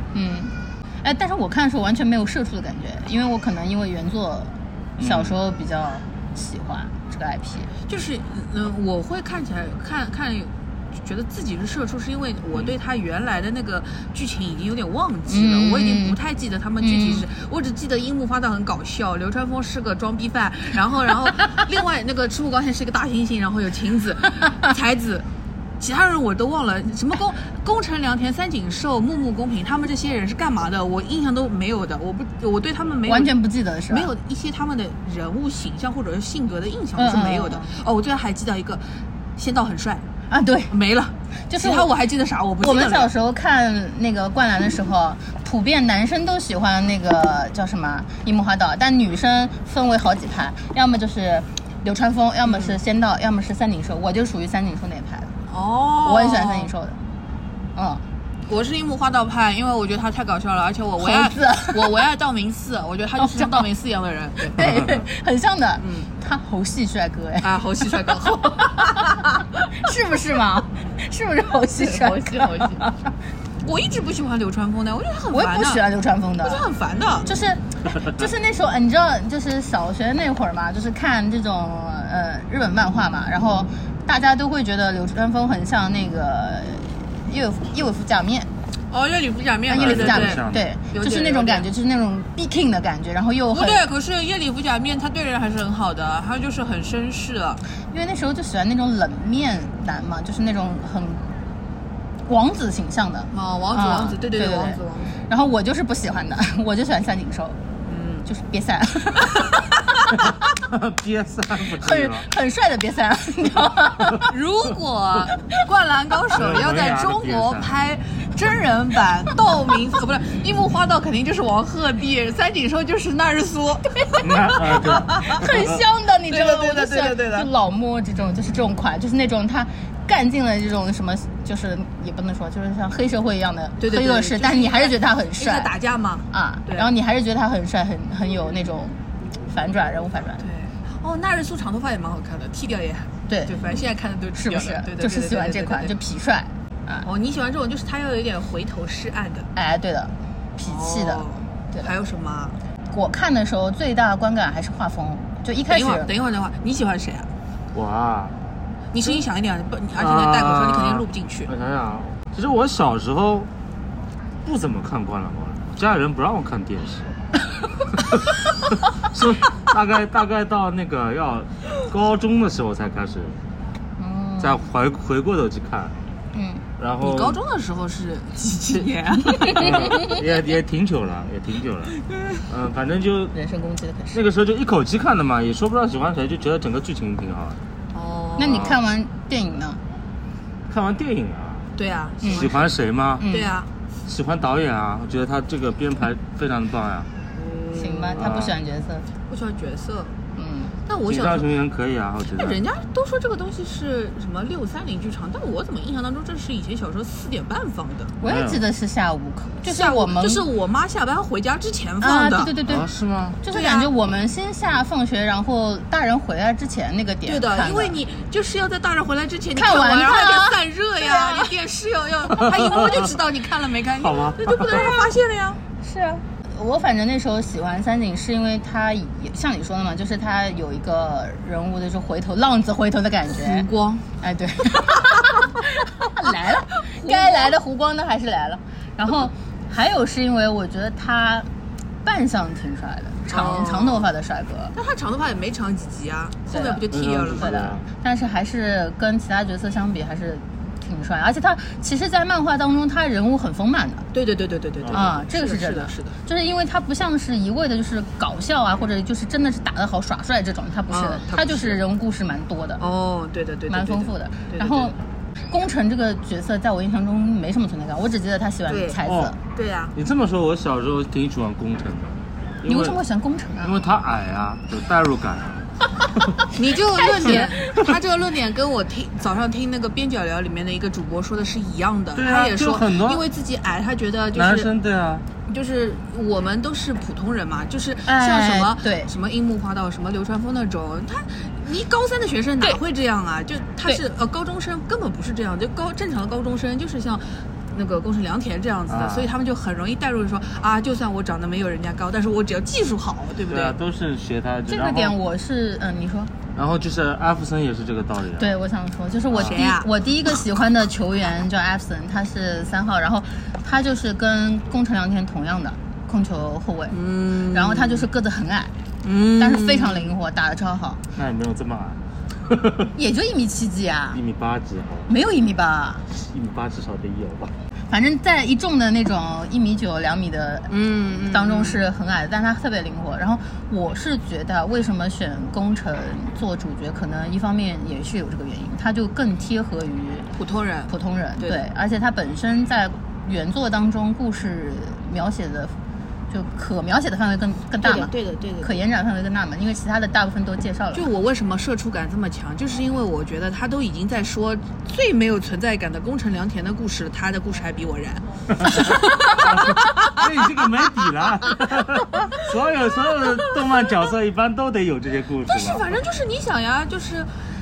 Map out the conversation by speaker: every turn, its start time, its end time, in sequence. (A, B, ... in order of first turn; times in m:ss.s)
0:00.1-0:07.7 A
0:05.0-0:05.4 B
0:07.9-0:25.3 C
0:15.3-0:16.2 A
0:16.8-0:17.2 A
0:25.8-0:38.8 C
0:33.1-0:34.1 A
0:37.0-0:37.8 A
0:39.4-0:40.1 C
0:40.3-0:40.7 A
0:40.7-0:43.1 C
0:41.5-0:41.9 A
0:42.6-0:55.4 A
0:52.4-0:52.8 C
0:55.5-0:56.7 C
0:56.0-0:57.0 A
0:57.8-0:58.0 A
0:58.5-1:04.6 C
1:01.0-1:02.0 A
1:03.2-1:03.6 A
1:04.5-1:13.1 A
1:04.6-1:05.0 B
1:05.8-1:06.1 C
1:07.4-1:09.7 C
1:11.8-1:12.9 C
1:13.6-1:15.8 C
1:15.3-1:16.6 A
1:16.4-1:17.3 C
1:17.3-1:28.5 A
1:28.9-1:31.7 C
1:29.7-1:33.8 A
1:29.7-1:30.7 B
1:33.5-1:37.6 C
1:37.9-1:41.3 A
1:42.3-1:47.6 A
1:43.3-1:45.1 C
1:47.9-1:48.3 C
1:48.3-1:49.6 A
1:50.6-1:52.3 B
1:51.7-1:54.3 A
1:54.3-2:05.4 C
1:56.3-1:57.8 B
2:04.2-2:05.8 B
2:05.3-2:15.7 A
2:06.3-2:07.5 C
2:13.8-2:16.9 C
2:16.3-2:20.4 A
2:20.4-2:26.0 C
2:23.3-2:23.6 A
2:24.4-2:27.1 A
2:27.0-2:29.5 C
2:29.6-2:31.9 A
2:30.6-2:32.6 C
2:32.9-2:36.1 A
2:35.7-2:37.3 C
2:37.7-2:38.4 B
2:38.9-2:41.5 C
2:40.0-2:43.5 B
2:44.4-2:47.1 B
2:47.9-2:53.4 B
2:54.0-2:54.6 A
2:54.4-2:56.0 B
2:56.3-2:56.6 A
2:56.8-2:57.4 B
2:57.0-2:59.9 C
2:59.4-3:00.2 A
2:59.5-3:03.4 B
3:03.3-3:04.2 A
3:04.1-3:07.6 B
3:07.9-3:08.8 C
3:08.4-3:09.8 A
3:08.5-3:08.8 B
3:10.7-3:11.7 B
3:11.8-3:12.8 C
3:12.2-3:12.5 A
3:12.2-3:13.3 B
3:13.2-3:13.5 A
3:13.3-3:13.7 C
3:14.1-3:17.1 B
3:17.4-3:18.4 C
3:17.8-3:19.1 A
3:18.2-3:18.6 B
3:19.3-3:20.2 C
3:20.4-3:20.7 A
3:20.9-3:21.6 C
3:21.1-3:22.6 B
3:22.4-3:28.1 C
3:28.2-3:28.6 B
3:28.2-3:30.4 A
3:29.6-3:32.6 C
3:32.0-3:32.9 A
3:32.6-3:33.4 B
3:33.4-3:38.0 A
3:33.5-3:33.9 C
3:37.2-3:45.6 C
3:39.6-3:41.5 A
3:42.4-3:43.0 B
3:44.0-3:44.9 B
3:45.8-3:53.7 A
3:53.4-3:54.1 C
3:54.2-4:01.5 A
3:56.9-3:57.6 C
4:02.0-4:04.8 A
4:03.3-4:04.1 C
4:04.7-4:07.5 C
4:06.5-4:14.1 A
4:06.9-4:07.8 B
4:14.1-4:16.2 C
4:14.8-4:15.1 B
4:14.9-4:22.8 A
4:20.9-4:21.8 C
4:22.8-4:24.9 C
4:23.7-4:25.0 A
4:25.5-4:29.4 A
4:28.7-4:29.9 C
4:29.0-4:29.4 B
4:29.9-4:33.0 B
4:32.7-4:33.9 A
4:33.6-4:36.5 B
4:36.6-4:44.7 C
4:37.2-4:37.5 A
4:37.2-4:37.8 B
4:42.1-4:43.2 B
4:44.3-4:45.2 B
4:45.4-5:03.8 C
4:48.0-4:49.1 A
4:58.9-4:59.3 B
5:03.5-5:05.2 B
5:04.7-5:06.3 A
5:06.6-5:08.6 B
5:08.4-5:18.7 A
5:09.3-5:09.6 B
5:09.4-5:09.9 C
5:16.9-5:18.1 C
5:19.0-5:20.1 C
5:19.4-5:21.0 A
5:21.1-5:22.9 B
5:23.0-5:24.2 A
5:24.1-5:25.1 B
5:25.1-5:26.1 A
5:26.1-5:27.5 B
5:27.9-5:40.3 A
5:30.7-5:31.8 C
5:40.4-5:41.6 C
5:40.9-5:45.8 A
5:46.3-5:51.0 A
5:47.8-5:48.8 C
5:50.9-6:00.3 C
5:58.5-6:05.9 B
6:05.5-6:07.3 C